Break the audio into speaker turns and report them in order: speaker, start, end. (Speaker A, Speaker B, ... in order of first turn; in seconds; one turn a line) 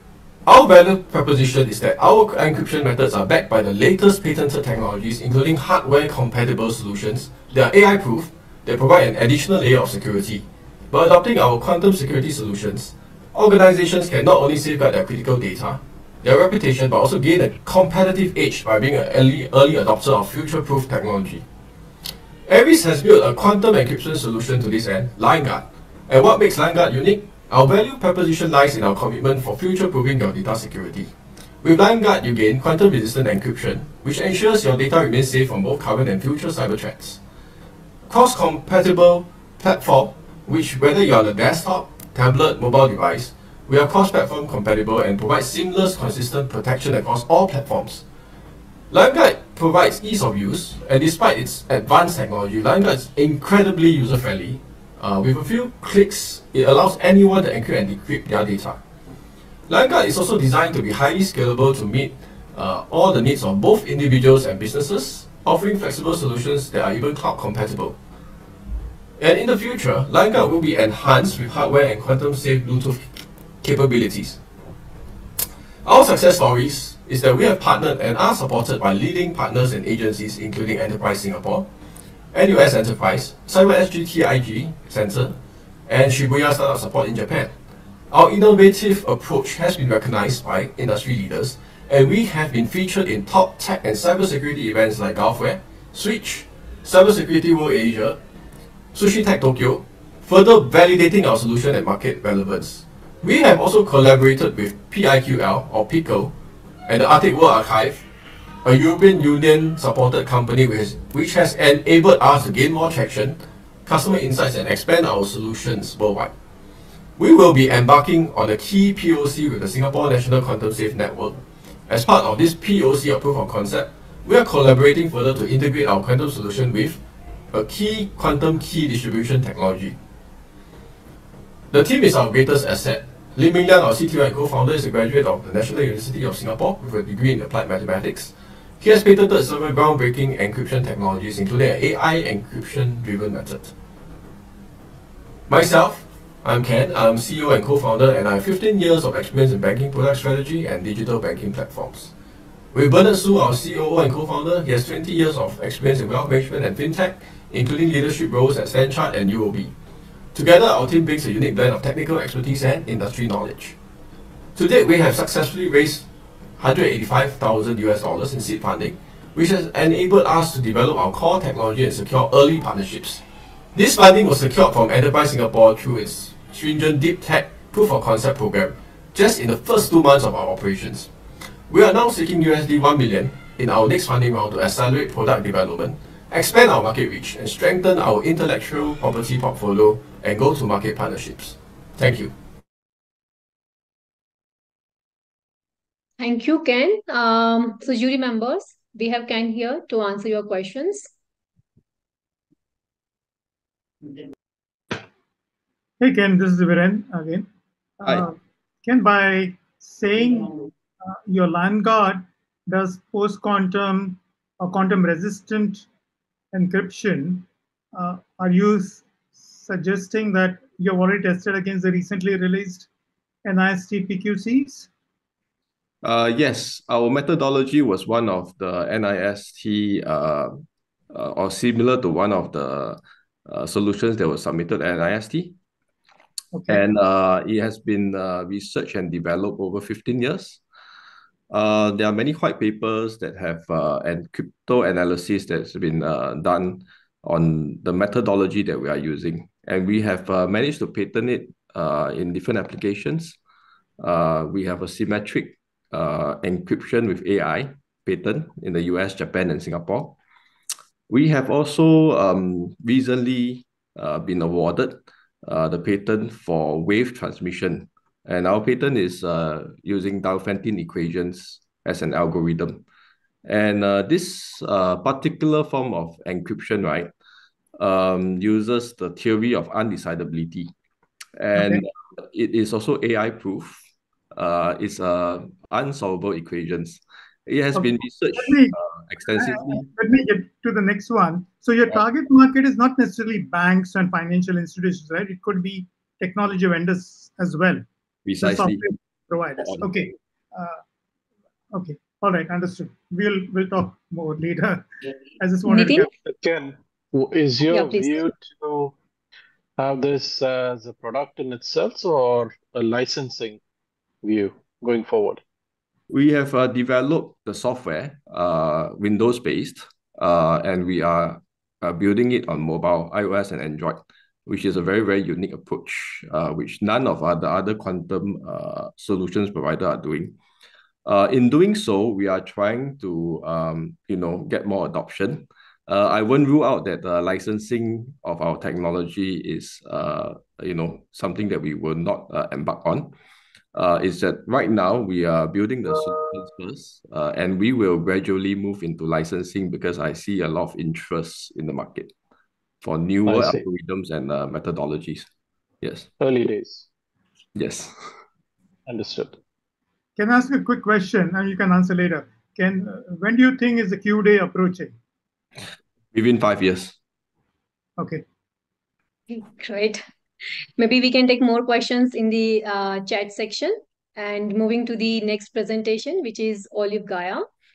Speaker A: 0.5-21.4
Speaker A: 22.5-37.2
Speaker A: 38.1-48.0
Speaker A: 48.9-58.8
Speaker A: 59.7-68.0
Speaker A: 69.2-73.1
Speaker A: 73.6-74.4
Speaker A: 75.8-81.7
Speaker A: 82.3-87.5
Speaker A: 88.1-98.2
Speaker A: 98.9-106.3
Speaker A: 106.9-108.0
Speaker A: 108.6-116.3
Speaker A: 117.2-130.0
Speaker A: 131.7-143.7
Speaker A: 145.5-152.1
Speaker A: 152.7-159.7
Speaker A: 160.3-163.8
Speaker A: 164.6-166.1
Speaker A: 166.6-173.2
Speaker A: 173.7-181.1
Speaker A: 181.7-192.3
Speaker B: 196.2-201.1
Speaker C: 206.0-207.5
Speaker C: 208.0-215.9
Speaker C: 216.5-222.9
Speaker C: 223.4-224.9
Speaker D: 226.0-230.5
Speaker D: 231.1-235.5
Speaker C: 236.5-236.8
Speaker D: 236.7-240.6
Speaker D: 241.5-253.4
Speaker D: 254.0-260.1
Speaker D: 261.1-272.8
Speaker D: 273.5-277.1
Speaker D: 277.8-280.7
Speaker D: 281.4-281.8
Speaker C: 281.6-281.8
Speaker D: 282.3-283.7
Speaker D: 284.4-289.7
Speaker C: 287.7-288.8
Speaker C: 289.4-297.9
Speaker C: 298.4-300.8
Speaker C: 301.7-304.9
Speaker C: 305.4-306.1
Speaker B: 305.7-306.1
Speaker E: 306.3-309.0
Speaker B: 307.7-308.3
Speaker E: 309.8-313.6
Speaker E: 314.2-315.4
Speaker D: 316.1-330.3
Speaker D: 331.1-343.1
Speaker D: 343.8-352.1
Speaker D: 352.9-355.2
Speaker E: 353.2-353.7
Speaker E: 356.2-356.9
Speaker E: 358.9-359.4
Speaker C: 360.2-364.9
Speaker A: 366.1-366.9
Speaker C: 368.0-368.2
Speaker B: 369.3-370.0
Speaker B: 370.8-377.4